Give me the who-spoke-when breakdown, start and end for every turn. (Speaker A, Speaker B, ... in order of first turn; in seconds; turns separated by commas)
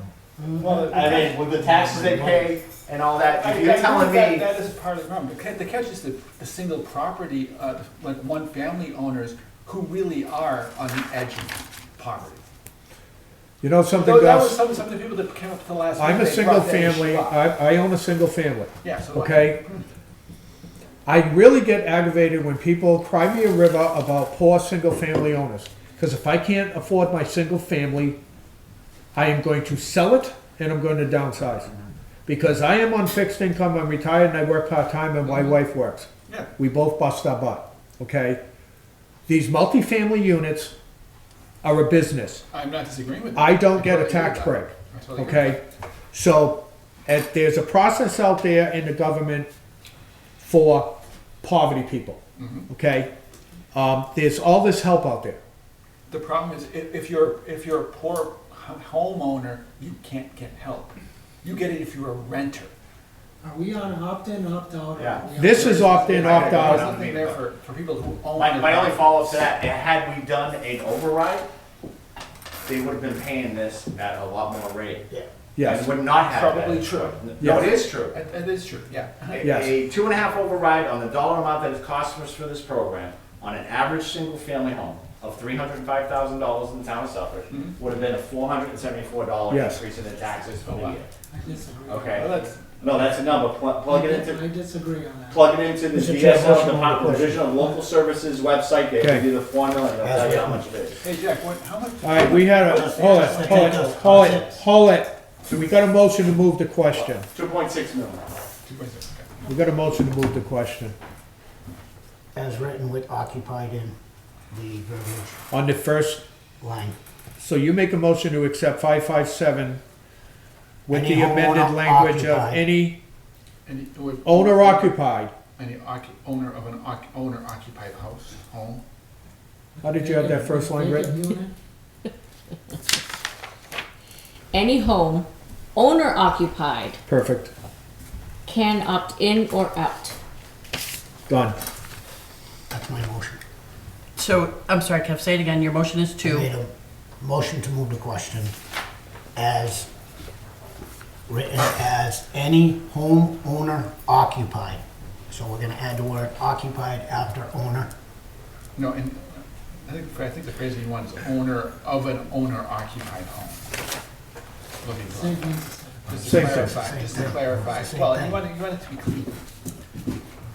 Speaker A: 0.5-2.5, Speaker B: 0.8-4.5, Speaker A: 3.2-12.4, Speaker C: 13.6-14.6, Speaker A: 13.9-17.4, Speaker C: 16.0-19.6, Speaker A: 18.8-19.9, Speaker C: 21.1-28.2, Speaker C: 29.1-31.7, Speaker C: 32.3-38.4, Speaker C: 39.3-40.7, Speaker C: 41.6-42.4, Speaker A: 42.5-45.6, Speaker C: 43.4-45.6, Speaker C: 46.1-49.5, Speaker C: 50.4-53.1, Speaker A: 52.4-52.7, Speaker C: 53.7-55.4, Speaker A: 56.1-62.7, Speaker D: 63.4-66.3, Speaker B: 65.0-67.4, Speaker C: 65.3-66.9, Speaker A: 65.4-69.3, Speaker B: 68.4-71.5, Speaker B: 72.7-75.1, Speaker C: 75.6-75.9, Speaker B: 75.6-78.2, Speaker A: 76.3-79.4, Speaker C: 77.4-77.7, Speaker B: 79.3-91.1, Speaker C: 79.4-79.8, Speaker A: 87.5-87.8, Speaker C: 89.5-89.8, Speaker A: 90.7-91.0, Speaker D: 91.3-92.3, Speaker B: 91.9-94.4, Speaker A: 92.1-93.2, Speaker D: 93.8-95.5, Speaker B: 95.3-101.0, Speaker E: 95.9-97.5, Speaker C: 96.7-97.3, Speaker C: 99.0-99.3, Speaker E: 100.0-100.6, Speaker A: 101.0-103.9, Speaker C: 102.0-107.3, Speaker E: 102.8-104.6, Speaker B: 106.9-108.4, Speaker A: 108.7-109.3, Speaker C: 109.5-111.0, Speaker E: 112.3-114.0, Speaker E: 114.5-115.4, Speaker C: 115.5-116.2, Speaker E: 116.6-117.0, Speaker C: 117.4-119.8, Speaker C: 120.9-123.0, Speaker E: 120.9-122.7, Speaker A: 123.7-125.0, Speaker C: 124.2-125.3, Speaker A: 125.5-128.8, Speaker D: 129.8-131.5, Speaker C: 129.8-131.2, Speaker F: 134.5-137.0, Speaker C: 137.1-137.5, Speaker F: 138.5-140.2, Speaker C: 141.3-141.6, Speaker E: 142.7-143.4, Speaker G: 144.2-146.5, Speaker E: 146.2-148.5, Speaker E: 149.3-149.9, Speaker E: 151.3-157.9, Speaker A: 158.8-163.7, Speaker A: 164.8-165.6, Speaker D: 165.1-166.2, Speaker A: 166.1-169.3, Speaker E: 166.2-168.4, Speaker C: 166.2-166.7